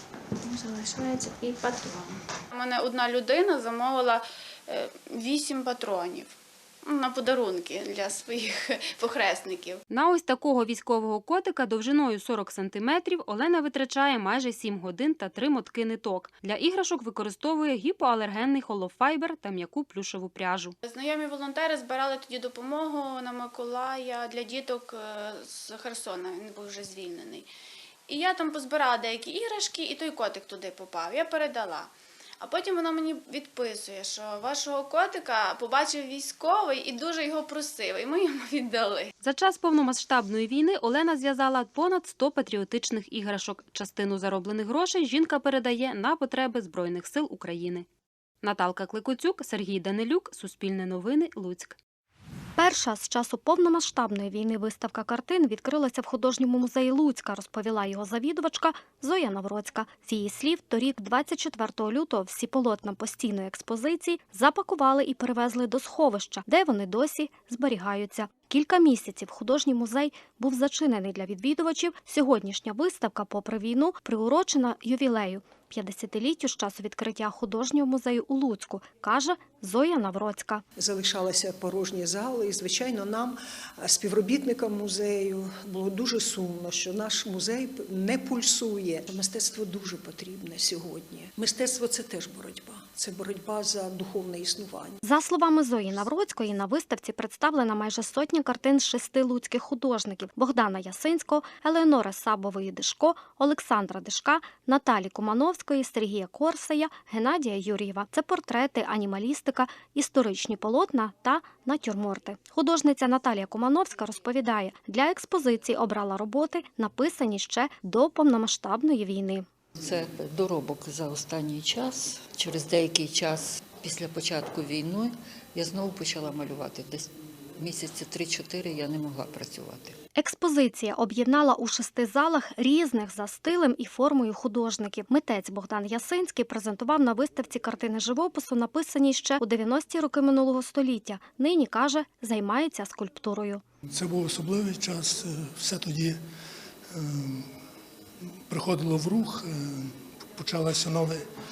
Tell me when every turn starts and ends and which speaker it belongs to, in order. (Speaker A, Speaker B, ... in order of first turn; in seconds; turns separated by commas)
Speaker A: 0.5-6.3, Speaker A: 6.8-9.8, Speaker B: 9.9-20.8, Speaker A: 20.8-27.5, Speaker A: 28.1-39.1, Speaker B: 39.2-47.9, Speaker B: 48.4-51.8, Speaker C: 52.6-80.6, Speaker D: 80.8-95.0, Speaker C: 95.0-119.5, Speaker E: 119.9-121.8, Speaker E: 128.9-129.8, Speaker C: 130.2-143.6, Speaker F: 143.9-146.1, Speaker F: 148.5-149.5, Speaker F: 150.4-151.2